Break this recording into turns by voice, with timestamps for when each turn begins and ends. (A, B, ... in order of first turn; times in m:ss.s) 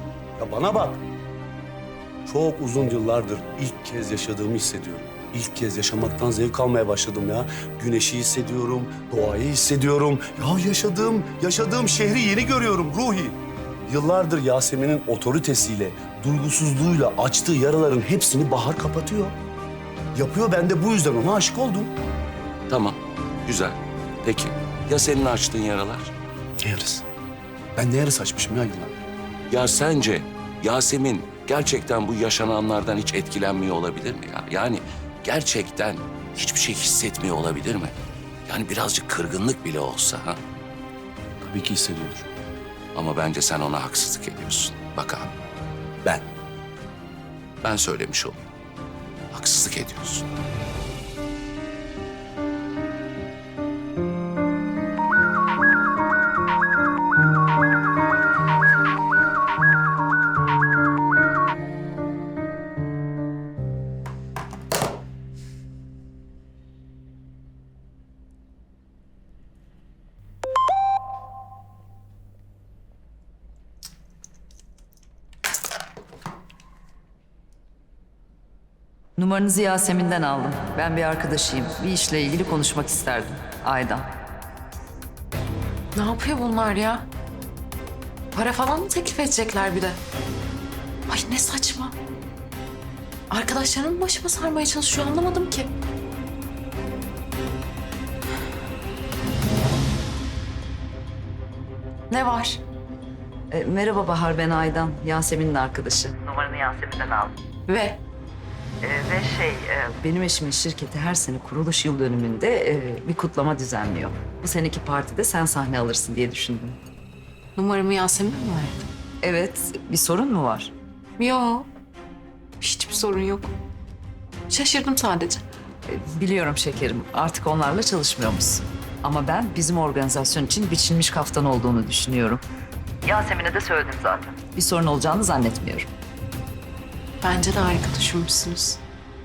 0:00.4-0:01.0 A
0:02.2-0:19.4 A
0:20.1-0:21.9 A
0:22.7-0:26.1 B
0:26.6-0:27.0 A
0:27.8-0:29.0 A
0:29.5-0:37.9 B
0:38.5-0:40.4 B
0:41.4-0:42.3 A
0:42.9-0:45.3 B
0:46.0-0:46.3 A
0:47.6-0:48.4 B
0:49.3-0:50.3 B
1:19.2-1:24.1 C
1:26.0-1:27.1 D
1:28.3-1:30.0 D
1:31.1-1:32.0 D
1:33.3-1:35.7 D
1:42.1-1:42.6 D
1:43.5-1:47.4 C
1:47.7-1:48.0 D
1:48.8-1:56.8 C
1:57.6-1:58.9 D
1:59.2-2:00.7 C
2:01.2-2:01.7 D
2:02.6-2:03.5 D
2:04.5-2:05.4 D
2:05.9-2:12.4 C
2:13.0-2:15.9 C
2:17.2-2:18.8 D